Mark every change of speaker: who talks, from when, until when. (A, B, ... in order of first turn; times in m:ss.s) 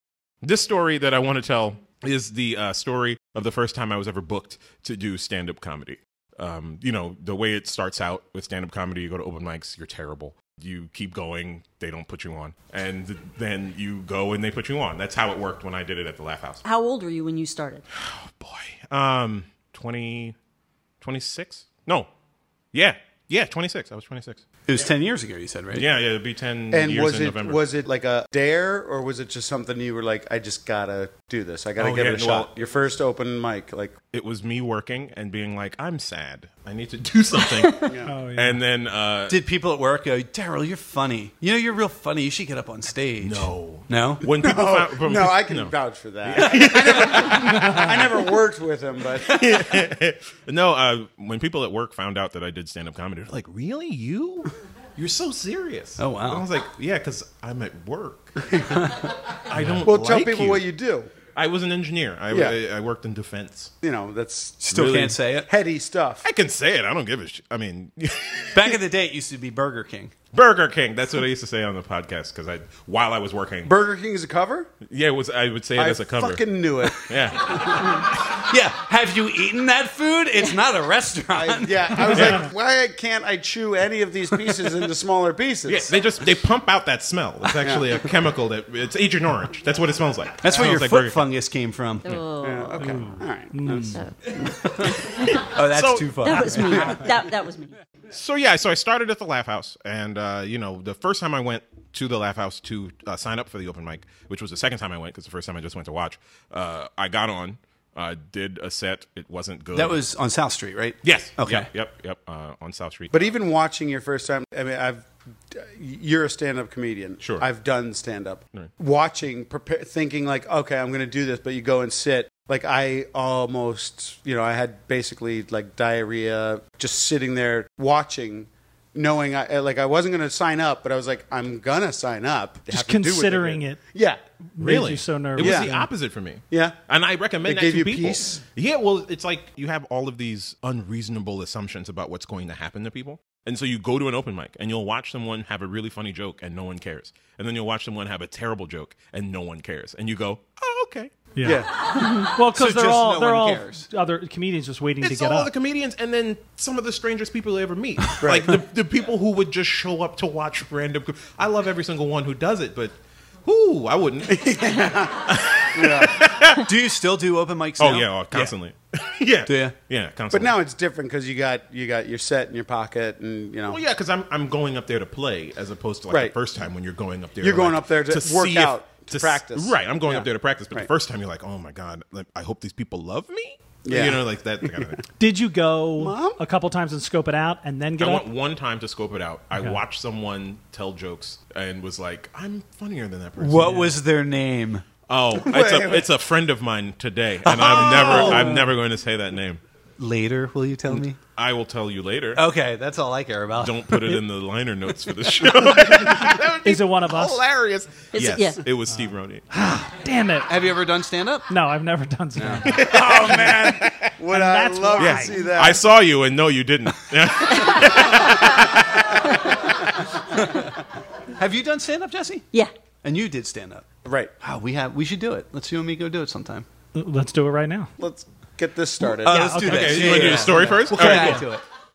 0:00.4-0:16.6 A
0:16.6-0:17.8 B
0:17.9-0:20.4 A
0:21.0-0:22.1 A
0:22.7-0:24.4 A
0:24.7-0:25.9 C
0:25.7-0:27.6 A
0:26.7-0:33.9 D
0:31.8-0:32.5 A
0:34.1-0:39.4 A
0:37.5-0:37.9 B
0:37.8-0:38.1 D
0:38.1-0:38.6 E
0:39.3-0:44.2 C
0:43.2-0:48.2 A
0:44.3-0:49.7 D
0:49.2-1:00.7 A
0:56.0-0:56.4 C
0:59.6-0:59.8 E
0:59.8-1:01.1 D
1:01.4-1:03.7 A
1:02.3-1:02.6 D
1:03.8-1:06.3 D
1:04.6-1:05.5 C
1:04.7-1:05.2 A
1:06.2-1:08.8 A
1:08.5-1:10.1 C
1:10.3-1:13.8 A
1:13.6-1:14.7 D
1:14.8-1:18.0 A
1:15.8-1:17.8 D
1:17.6-1:22.4 C
1:21.3-1:25.9 D
1:22.1-1:22.4 A
1:25.7-1:31.3 A
1:27.6-1:27.9 D
1:30.4-1:32.2 C
1:32.0-1:32.8 B
1:32.4-1:34.5 D
1:32.8-1:34.0 E
1:34.7-1:35.3 B
1:35.3-1:36.9 A
1:35.4-1:37.1 C
1:36.2-1:37.8 B
1:38.1-1:50.0 A
1:49.7-1:51.7 C
1:51.0-1:53.2 A
1:53.1-2:14.2 D
1:57.2-1:57.5 A
2:12.7-2:13.8 E
2:14.6-2:15.9 E
2:14.6-2:31.1 A
2:15.4-2:15.7 D
2:16.5-2:16.8 D
2:17.4-2:18.4 D
2:31.4-2:35.5 E
2:31.4-2:31.7 D
2:32.0-2:32.3 B
2:32.5-2:33.9 C
2:35.0-2:44.6 A
2:38.2-2:38.6 D
2:44.3-2:46.3 D
2:45.2-2:46.7 A
2:46.6-2:48.5 C
2:47.8-2:50.6 A
2:49.5-2:49.7 C
2:50.3-2:53.8 D
2:53.7-3:05.0 A
2:56.1-2:56.4 D
2:57.4-3:00.9 D
3:03.8-3:05.0 D
3:05.2-3:08.3 E
3:06.0-3:06.4 D
3:08.0-3:14.0 A
3:13.4-3:14.9 C
3:15.1-3:19.6 A
3:15.4-3:16.1 D
3:17.4-3:18.7 C
3:17.9-3:18.4 D
3:20.0-3:21.2 C
3:20.9-3:22.5 A
3:22.4-3:24.2 C
3:23.6-3:29.4 A
3:26.6-3:27.4 E
3:28.1-3:28.6 B
3:29.5-3:30.5 E
3:30.5-3:31.5 C
3:31.5-3:32.9 E
3:32.4-3:33.7 C
3:32.6-3:34.1 A
3:32.9-3:35.8 D
3:34.3-3:35.4 E
3:35.0-3:39.4 A
3:37.5-3:38.5 B
3:41.4-3:42.5 C
3:43.0-3:43.9 C
3:44.0-3:44.3 D
3:44.4-3:46.7 C
3:47.0-3:47.9 E
3:48.0-3:50.3 D
3:49.0-3:51.6 C
3:49.3-3:50.4 E
3:49.6-3:51.5 A